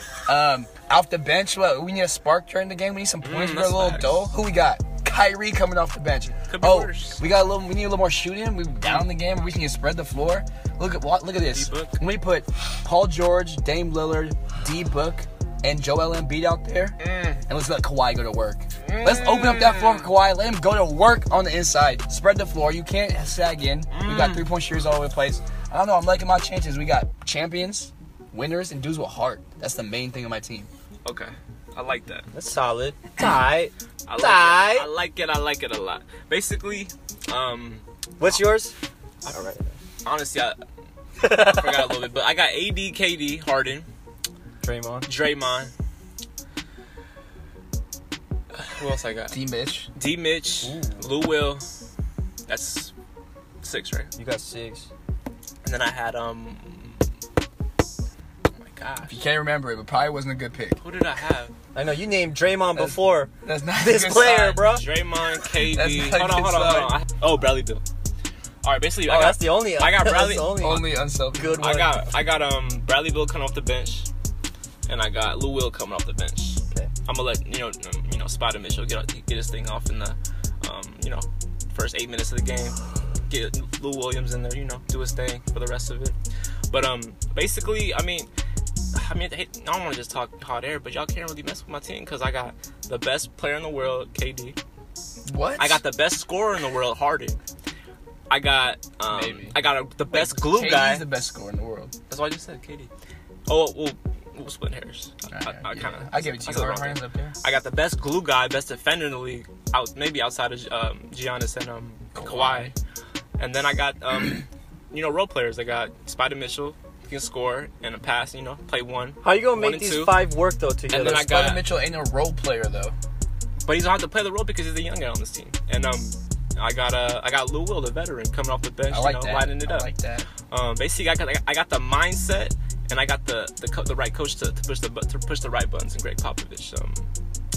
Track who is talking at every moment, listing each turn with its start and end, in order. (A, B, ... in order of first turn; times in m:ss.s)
0:00.3-0:30.7 A
0:03.2-0:04.3 B
0:06.5-0:07.2 B
0:11.5-0:12.0 B
0:17.0-0:17.4 B
0:18.8-0:20.1 B
0:23.9-0:24.5 B
0:31.0-0:32.3 B
0:32.3-0:34.9 C
0:34.1-0:38.4 B
0:38.2-0:38.7 C
0:39.2-0:39.7 C
0:40.0-0:40.6 B
0:41.2-0:41.9 C
0:41.2-0:43.9 B
0:44.6-0:45.1 C
0:45.1-0:45.7 B
0:48.5-0:49.4 B
0:49.3-0:49.9 A
0:50.0-0:51.6 B
0:50.6-0:51.1 C
0:52.5-0:52.9 B
0:53.6-0:54.1 B
0:54.2-0:54.9 C
0:55.6-0:57.0 B
0:58.6-0:59.2 B
0:59.1-1:00.8 A
1:00.8-1:01.5 B
1:01.8-1:04.9 C
1:02.8-1:04.7 A
1:04.6-1:07.8 B
1:05.5-1:07.0 A
1:08.6-1:10.8 B
1:09.0-1:11.9 C
1:10.6-1:12.0 A
1:11.6-1:14.1 B
1:14.9-1:26.2 B
1:26.7-1:28.3 B
1:28.9-1:34.6 B
1:35.2-1:35.8 A
1:35.6-1:37.4 B
1:38.3-1:41.1 B
1:39.1-1:41.9 A
1:42.1-1:42.9 B
1:43.5-1:52.7 B
1:45.3-1:47.4 A
1:52.2-1:52.7 A
1:53.4-2:00.2 B
1:59.2-2:01.2 C
2:00.9-2:01.6 B
2:00.9-2:03.0 A
2:03.7-2:09.9 B
2:08.9-2:10.3 A
2:10.5-2:17.1 B